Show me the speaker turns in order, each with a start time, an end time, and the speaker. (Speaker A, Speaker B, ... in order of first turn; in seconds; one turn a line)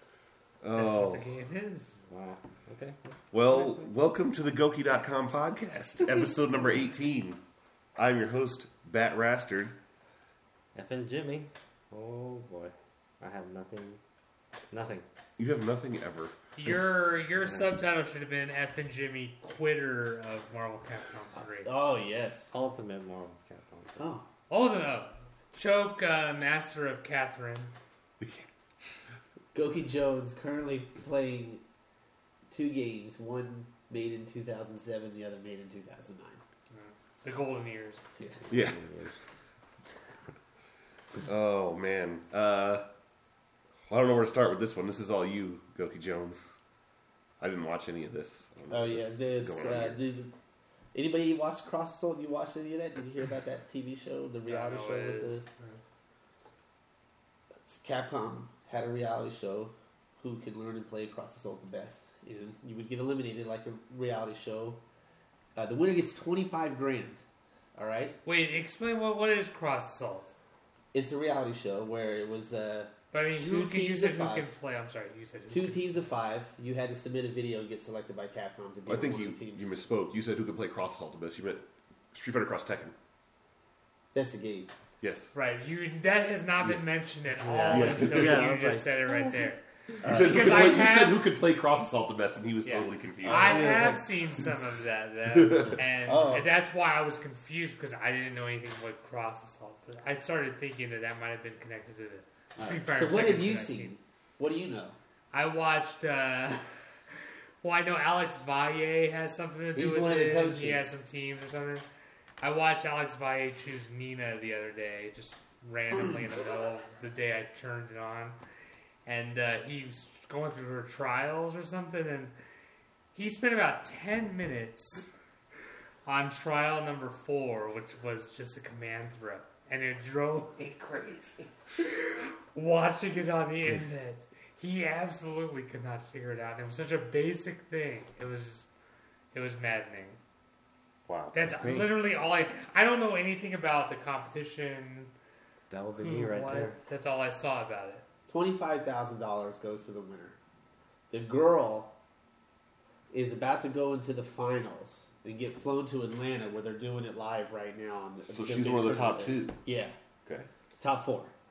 Speaker A: 0.6-1.3
Speaker B: 0.7-2.0
Speaker C: 2.1-3.8
Speaker A: 3.3-7.4
Speaker A: 8.0-9.8
Speaker C: 10.8-14.0
Speaker C: 14.7-15.1
Speaker A: 15.4-16.4
Speaker B: 16.6-21.7
Speaker D: 21.6-22.5
Speaker C: 22.5-24.1
Speaker D: 24.0-24.3
Speaker B: 24.5-27.7
Speaker A: 28.2-28.5
Speaker D: 29.5-31.6
Speaker D: 32.5-36.4
Speaker B: 36.7-38.0
Speaker D: 38.2-38.6
Speaker A: 38.5-38.8
Speaker C: 38.5-39.2
Speaker A: 41.2-42.9
Speaker A: 43.9-46.5
Speaker A: 47.4-50.0
Speaker D: 48.7-50.3
Speaker D: 50.9-55.5
Speaker B: 54.5-55.8
Speaker D: 57.7-64.8
Speaker D: 65.6-67.2
Speaker D: 67.8-68.2
Speaker B: 68.2-70.3
Speaker D: 70.9-74.5
Speaker B: 73.1-75.9
Speaker D: 75.5-79.7
Speaker A: 78.9-83.0
Speaker D: 84.1-84.7
Speaker A: 85.0-85.3
Speaker B: 85.3-91.2
Speaker C: 87.4-89.3
Speaker A: 87.7-88.5
Speaker D: 90.0-90.9
Speaker A: 90.0-93.8
Speaker B: 92.7-103.9
Speaker D: 93.2-94.0
Speaker C: 93.5-94.0
Speaker A: 95.3-95.8
Speaker D: 96.0-96.5
Speaker D: 102.6-105.0
Speaker B: 105.3-106.7
Speaker B: 107.6-111.9
Speaker D: 109.8-110.9
Speaker B: 112.4-118.4
Speaker B: 119.0-122.3
Speaker B: 123.2-125.1
Speaker B: 126.0-138.7
Speaker B: 139.3-140.2
Speaker A: 141.1-142.0
Speaker B: 141.3-145.1
Speaker C: 145.7-146.8
Speaker B: 146.0-148.0
Speaker D: 148.3-150.4
Speaker D: 151.1-151.9
Speaker D: 153.1-159.9
Speaker A: 158.3-159.6
Speaker D: 160.8-161.3